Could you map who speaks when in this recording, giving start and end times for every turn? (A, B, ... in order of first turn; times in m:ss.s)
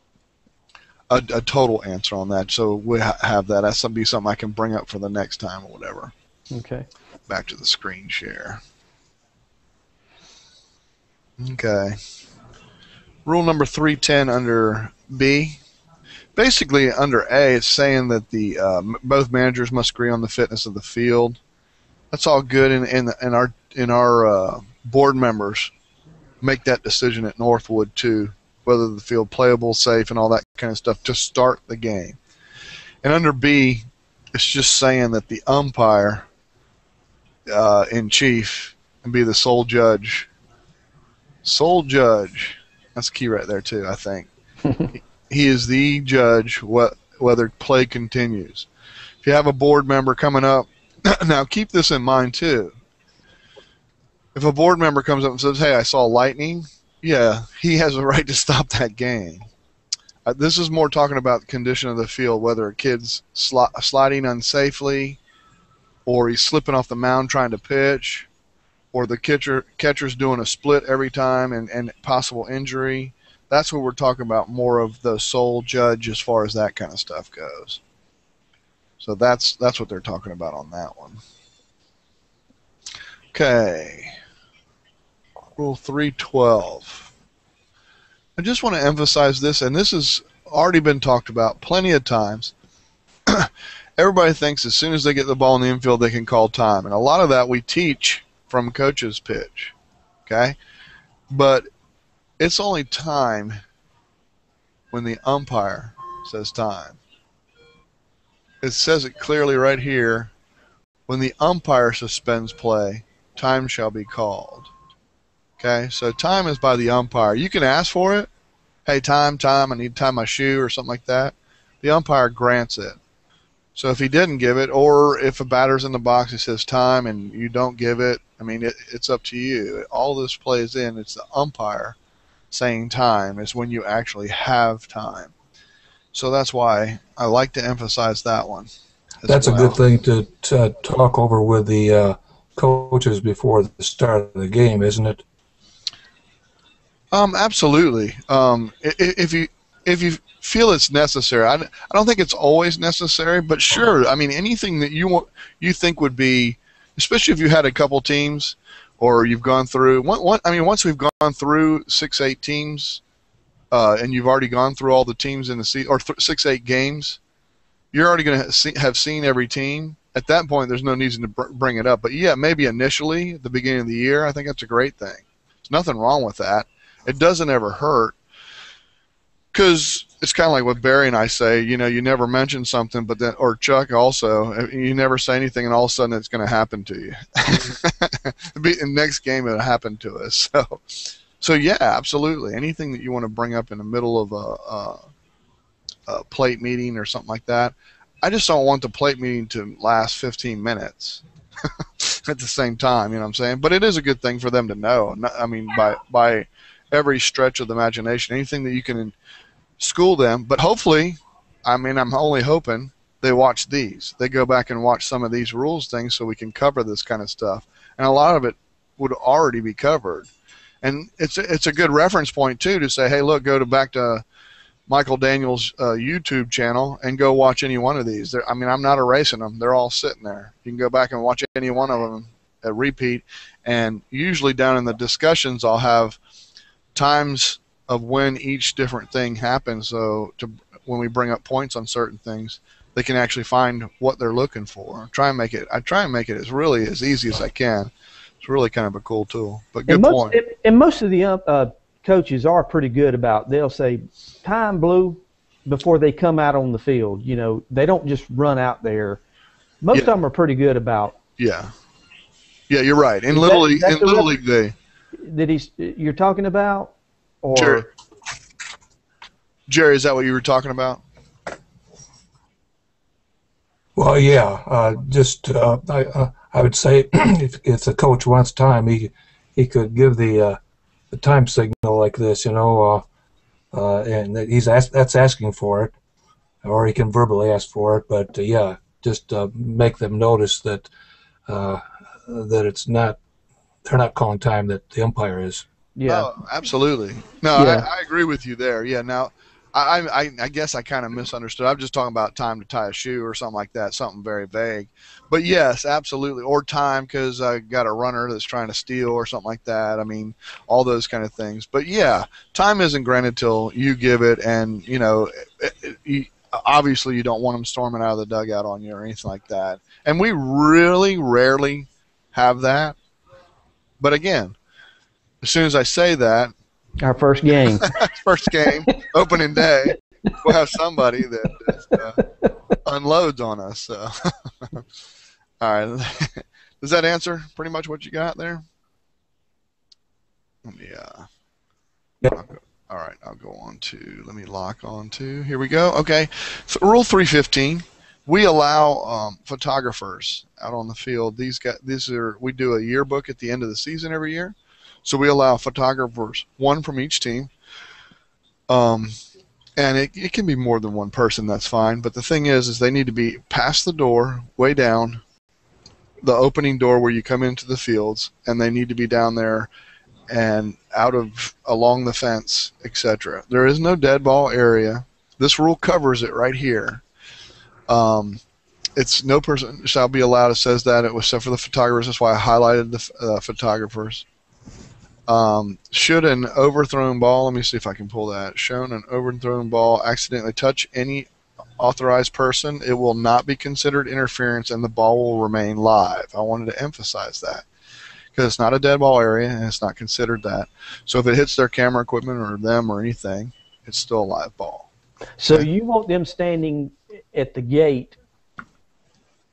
0:01.1-0:06.1 A
0:06.5-0:06.9 B
0:07.3-0:08.6 A
0:11.4-0:12.0 A
0:13.2-0:15.6 A
0:16.4-0:21.4 A
0:22.1-0:25.7 A
0:26.4-0:32.2 A
0:33.0-0:36.2 A
0:37.5-0:40.3 A
0:41.4-0:44.3 A
0:44.9-0:48.7 A
0:49.2-0:52.8 A
0:54.3-0:59.5 A
1:00.2-1:05.2 A
1:06.0-1:08.3 A
1:08.9-1:17.8 A
1:19.0-1:21.2 A
1:23.3-1:24.1 A
1:25.6-1:27.1 A
1:28.4-1:32.5 A
1:33.3-1:39.7 A
1:40.2-1:40.6 A
1:41.3-1:41.7 A
1:42.4-1:43.6 A
1:44.9-1:47.0 A
1:48.6-1:50.3 A
1:51.1-1:54.7 A
1:55.6-1:58.3 A
1:58.8-2:03.0 A
2:03.8-2:12.0 A
2:12.5-2:15.3 A
2:16.1-2:18.7 A
2:19.2-2:19.8 A
2:19.3-2:25.2 C
2:27.1-2:43.0 A
2:43.7-2:47.2 A
2:47.9-2:58.2 A
2:59.5-3:15.0 A
3:16.1-3:21.2 A
3:21.8-3:29.1 A
3:29.8-3:40.3 A
3:40.8-3:44.2 A
3:44.9-3:56.2 A
3:56.9-4:07.9 A
4:08.4-4:10.4 A
4:09.9-4:19.2 B
4:19.8-4:21.2 B
4:21.4-4:21.7 A
4:22.7-4:24.7 A
4:23.3-4:24.3 B
4:25.2-4:26.9 B
4:27.4-4:27.8 B
4:27.5-4:27.9 A
4:29.7-4:31.0 A
4:34.0-4:40.6 C
4:41.1-4:43.0 C
4:43.7-4:45.9 C
4:46.6-4:50.9 C
4:51.5-4:53.2 C
4:53.8-4:55.6 C
4:56.0-4:56.3 B
4:56.1-5:23.0 A
4:57.5-4:57.9 B
5:24.0-5:24.6 A
5:25.4-5:26.5 A
5:27.0-5:27.9 B
5:27.8-5:32.2 A
5:32.8-5:34.8 A
5:35.6-5:38.6 A
5:40.6-5:41.3 A
5:42.3-5:57.5 A
5:58.7-5:59.2 A
5:59.8-6:05.2 A
6:06.2-6:09.7 A
6:10.3-6:17.0 A
6:17.9-6:18.4 A
6:19.0-6:24.2 A
6:25.3-6:37.6 A
6:38.3-6:44.9 A
6:45.4-6:48.2 B